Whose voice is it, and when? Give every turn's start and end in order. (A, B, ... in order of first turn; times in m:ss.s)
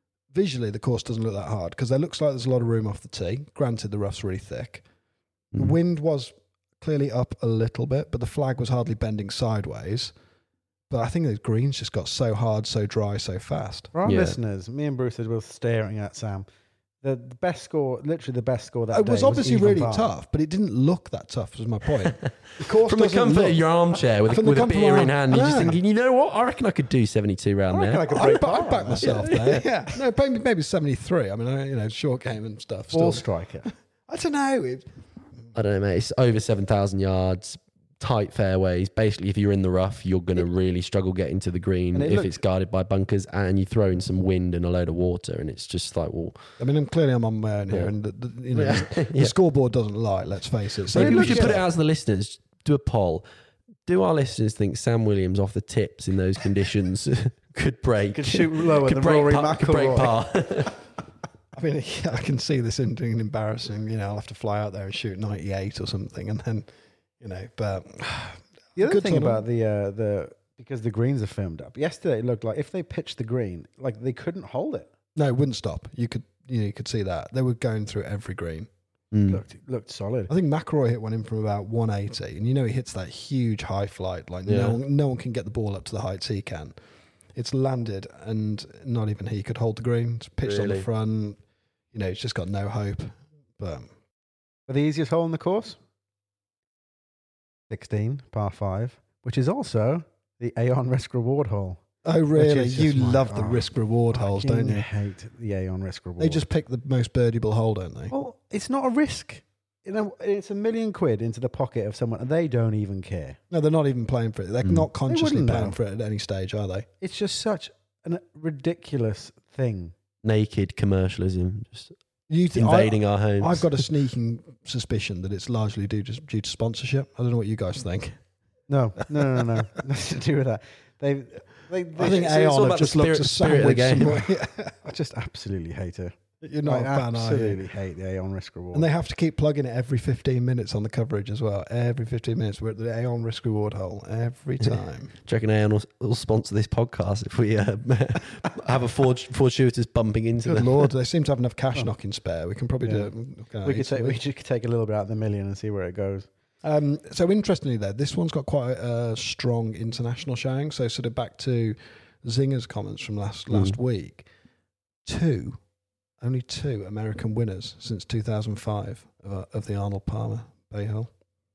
0:00.3-0:04.8 A
0:05.6-0:10.1 A
0:10.9-0:13.9 A
0:13.9-0:16.5 B
0:14.0-0:14.4 C
0:17.0-0:20.1 B
0:18.9-0:23.6 A
0:22.0-0:28.4 C
0:24.3-0:25.8 A
0:27.7-0:29.1 B
0:28.2-0:33.2 A
0:29.0-0:29.6 C
0:32.9-0:33.7 B
0:34.1-0:34.9 A
0:35.5-0:46.4 C
0:41.9-0:42.4 B
0:46.6-0:51.6 A
0:48.5-0:49.3 C
0:50.9-0:53.3 C
0:51.0-0:51.6 B
0:53.9-1:00.8 C
0:58.1-1:00.2 B
1:01.5-1:06.7 A
1:07.2-1:09.4 A
1:08.8-1:14.9 B
1:15.2-1:18.7 A
1:19.1-1:19.4 C
1:19.3-1:20.3 B
1:20.3-1:26.8 A
1:24.5-1:24.8 C
1:27.4-1:31.4 A
1:30.4-1:30.9 C
1:31.9-1:33.9 A
1:34.7-1:35.8 B
1:37.7-1:41.8 B
1:42.0-1:44.9 A
1:42.3-1:46.4 B
1:46.2-1:48.1 A
1:48.1-1:53.4 B
1:53.5-1:56.9 A
1:55.1-1:55.8 B
1:57.0-1:59.9 B
2:00.2-2:01.9 C
2:02.3-2:08.2 A
2:02.5-2:03.8 C
2:08.7-2:12.7 B
2:12.0-2:14.7 A
2:12.1-2:14.3 C
2:14.8-2:18.9 B
2:16.4-2:17.6 A
2:18.7-2:25.1 A
2:24.6-2:30.9 C
2:30.4-2:34.2 A
2:32.8-2:33.1 B
2:33.6-2:36.3 B
2:36.6-2:44.3 A
2:43.5-2:43.8 C
2:45.0-2:45.6 A
2:46.2-2:51.1 A